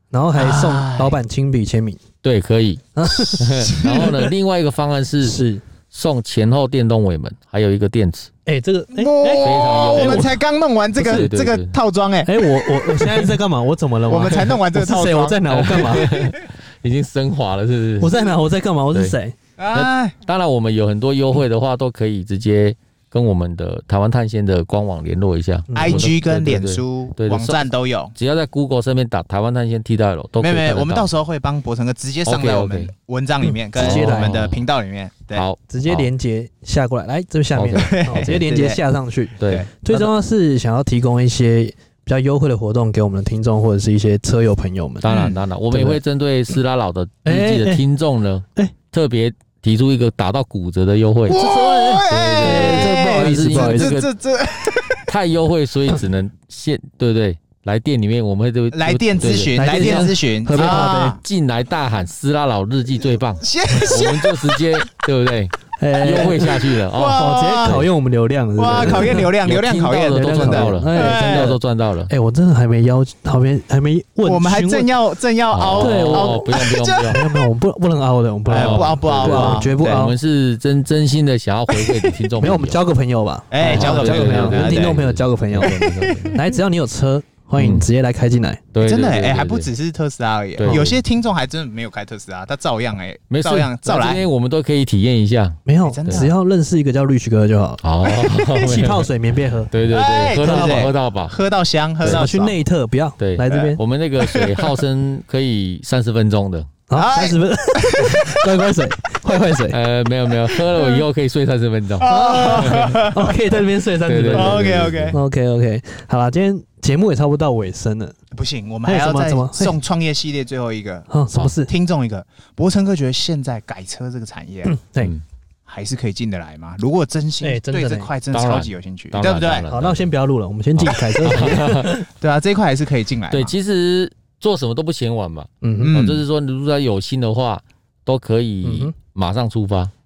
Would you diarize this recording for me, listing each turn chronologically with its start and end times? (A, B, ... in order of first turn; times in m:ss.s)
0:00.1-0:02.0 A
0:00.4-0:01.2 B
0:02.2-0:05.4 C
0:03.0-0:03.7 A
0:03.6-0:04.3 B
0:05.2-0:05.6 A
0:05.9-0:08.3 C
0:08.4-0:10.3 A
0:08.9-0:13.0 B
0:09.4-0:10.3 C
0:11.0-0:11.8 C
0:11.0-0:11.3 A
0:12.2-0:16.1 A
0:14.1-0:16.3 B
0:15.5-0:18.2 C
0:18.0-0:19.4 A
0:19.6-0:20.2 B
0:19.7-0:31.1 C
0:25.7-0:26.1 A
0:25.7-0:28.1 B
0:30.4-0:35.4 B
0:32.2-0:32.9 C
0:33.4-0:34.4 A
0:33.7-0:34.6 C
0:35.3-0:36.1 C
0:35.7-0:45.1 A
0:37.5-0:38.4 C
0:37.7-0:38.8 B
0:39.4-0:40.1 C
0:39.4-0:39.7 B
0:45.0-0:51.5 C
0:45.1-0:45.4 B
0:45.7-0:46.0 A
0:47.2-0:47.8 A
0:51.3-0:55.1 B
0:51.3-0:54.0 A
0:52.0-0:54.1 C
0:55.1-1:07.8 C
0:58.7-1:01.2 B
0:59.5-1:01.2 A
1:03.4-1:04.6 B
1:03.7-1:03.9 A
1:05.8-1:06.6 A
1:06.9-1:07.8 B
1:07.1-1:09.3 A
1:08.6-1:11.5 B
1:08.7-1:12.1 C
1:10.1-1:11.6 A
1:12.1-1:14.9 A
1:14.2-1:17.4 B
1:15.5-1:17.2 C
1:15.8-1:16.5 A
1:17.0-1:20.1 A
1:18.5-1:20.1 B
1:18.5-1:22.8 C
1:21.7-1:22.0 B
1:22.4-1:25.7 A
1:23.5-1:25.0 B
1:23.6-1:26.4 C
1:25.6-1:26.4 B
1:26.3-1:28.6 A
1:27.6-1:27.8 C
1:28.7-1:29.7 C
1:28.8-1:34.2 B
1:30.6-1:31.0 C
1:30.6-1:30.9 A
1:33.3-1:36.3 C
1:35.6-1:37.8 A
1:35.8-1:36.3 B
1:37.8-1:41.3 C
1:38.0-1:38.9 B
1:38.6-1:39.7 A
1:39.9-1:42.6 B
1:40.3-1:40.9 A
1:42.0-1:43.8 A
1:43.2-1:46.7 C
1:44.2-1:44.8 B
1:46.9-1:49.8 A
1:47.0-1:48.4 B
1:49.7-1:53.0 C
1:50.5-1:51.0 B
1:52.0-1:53.4 B
1:52.0-1:58.1 A
1:54.0-1:55.2 C
1:54.3-1:55.2 B
1:58.3-2:01.1 B
1:58.8-1:59.7 A
2:01.1-2:01.7 A
2:01.6-2:04.8 B
2:04.6-2:05.1 A
2:05.7-2:09.7 B
2:07.4-2:08.1 A
2:08.3-2:10.1 C
2:09.7-2:12.1 A
2:10.8-2:12.0 C
2:10.9-2:11.4 B
2:12.2-2:13.5 B
2:13.3-2:19.9 C
2:15.6-2:16.0 A
2:15.8-2:16.2 B
2:18.6-2:18.9 A